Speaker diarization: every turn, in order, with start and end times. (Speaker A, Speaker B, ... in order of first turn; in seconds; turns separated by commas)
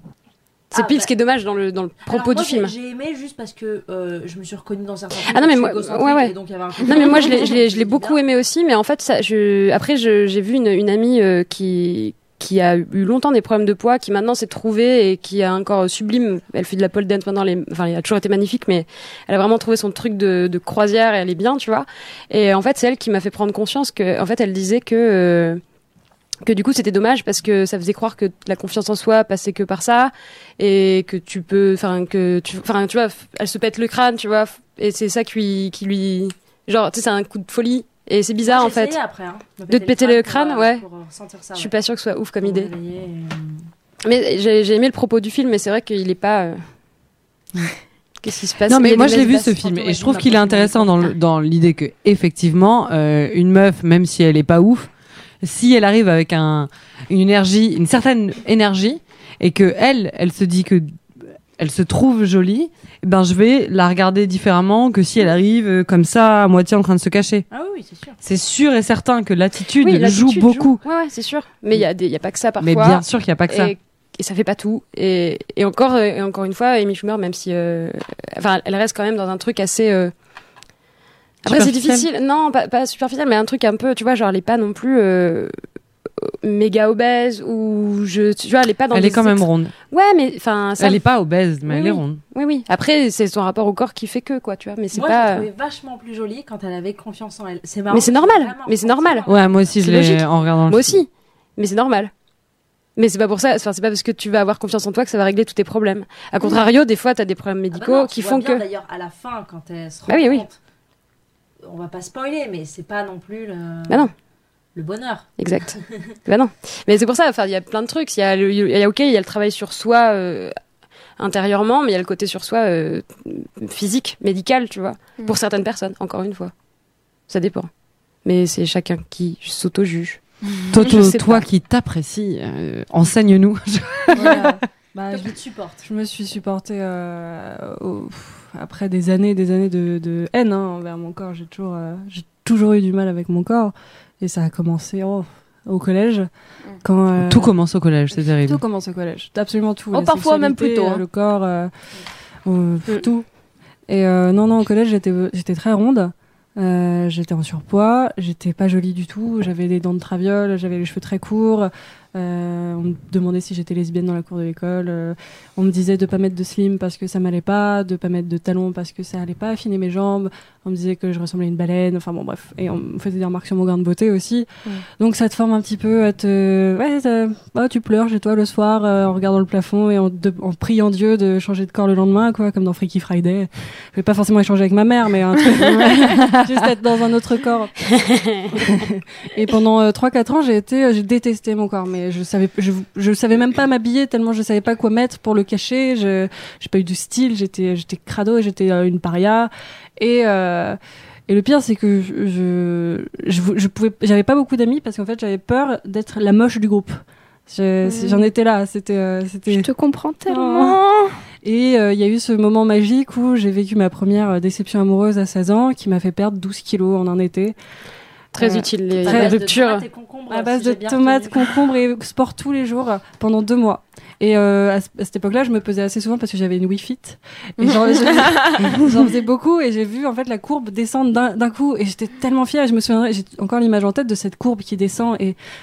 Speaker A: 0.7-2.7, Speaker B: 0.7-1.1, Speaker B: 2.1-8.2, Speaker A: 5.2-25.6, Speaker A: 26.4-39.0, Speaker B: 38.4-41.7, Speaker A: 39.7-40.9, Speaker A: 41.5-42.7, Speaker B: 42.4-43.7, Speaker A: 44.0-46.6, Speaker A: 48.2-49.6, Speaker C: 48.7-54.9, Speaker B: 49.1-51.1, Speaker C: 55.4-67.5, Speaker B: 67.5-68.2, Speaker C: 68.2-70.8, Speaker A: 69.8-80.1, Speaker C: 72.6-73.7, Speaker C: 81.5-82.1, Speaker A: 81.5-85.5, Speaker A: 86.2-91.0, Speaker C: 88.9-89.7, Speaker C: 90.8-92.2, Speaker A: 91.7-95.5, Speaker B: 94.9-99.8, Speaker A: 97.9-102.1, Speaker C: 99.3-101.0, Speaker A: 103.0-108.6, Speaker B: 107.7-110.6, Speaker A: 110.1-110.5, Speaker B: 111.7-114.1, Speaker B: 114.8-115.8, Speaker A: 115.4-120.5, Speaker A: 121.2-126.5, Speaker A: 127.3-127.7, Speaker A: 128.2-131.4, Speaker C: 130.7-134.5, Speaker D: 134.1-146.3, Speaker B: 135.1-135.9, Speaker D: 146.8-147.5, Speaker C: 147.2-148.6, Speaker D: 148.4-151.7, Speaker E: 149.9-151.0, Speaker D: 152.4-153.3, Speaker D: 153.9-174.5, Speaker D: 175.0-187.8, Speaker C: 185.7-186.7, Speaker A: 188.0-188.4, Speaker D: 188.5-209.7, Speaker E: 207.8-208.3, Speaker E: 209.5-211.2, Speaker D: 210.3-210.8, Speaker D: 211.4-217.6, Speaker A: 218.3-219.9, Speaker D: 218.4-219.4, Speaker B: 219.0-221.5, Speaker D: 220.3-235.4, Speaker E: 227.6-228.9